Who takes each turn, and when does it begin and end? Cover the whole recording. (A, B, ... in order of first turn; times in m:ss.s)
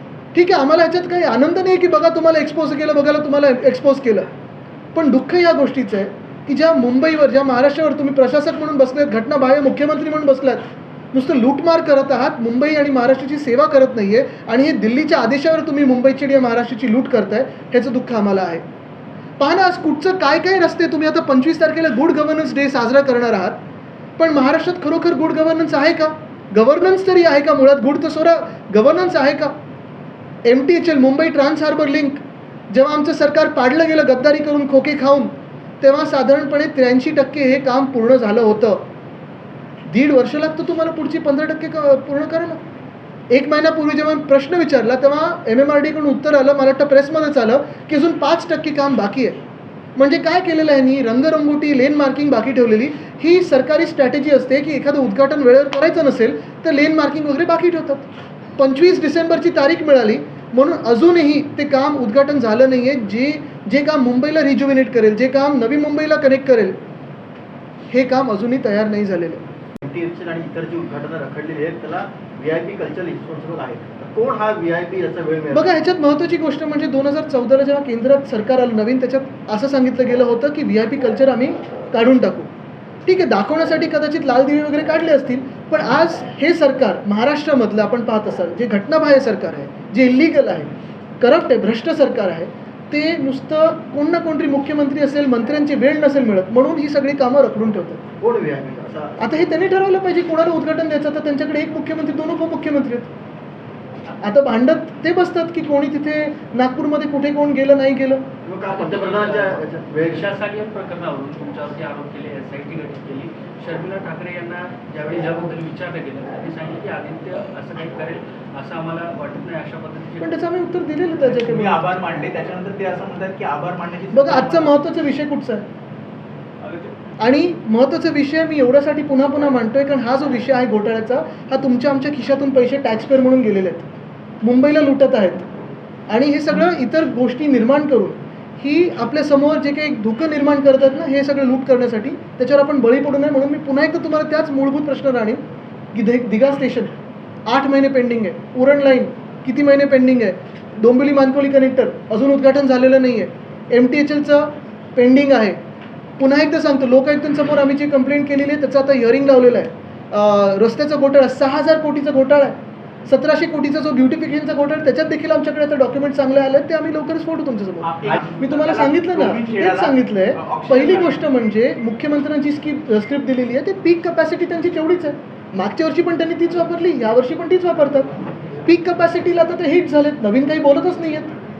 0:00.3-0:04.3 A
0:04.9-0:18.6 A
0:19.4-0:23.6 A
0:24.2-0:29.5 A
0:30.4-0:38.8 A
0:39.9-0:42.6 A
0:43.3-0:49.4 A
0:50.0-1:06.8 A
1:07.9-1:09.4 A
1:09.8-1:15.7 B
1:15.5-1:22.5 A
1:23.0-1:38.0 A
1:38.2-1:39.2 B
1:39.2-1:43.1 A
1:44.2-1:48.2 A
1:48.4-1:50.3 B
1:48.7-2:00.4 C
2:00.2-2:01.9 A
2:01.3-2:04.7 D
2:04.1-2:05.6 A
2:06.6-2:06.9 D
2:07.2-2:13.9 A
2:14.4-2:15.5 A
2:16.1-2:25.4 A
2:25.9-2:26.9 A
2:27.5-2:35.6 A
2:36.2-2:58.1 A
2:47.8-2:51.2 D
2:58.6-3:01.3 A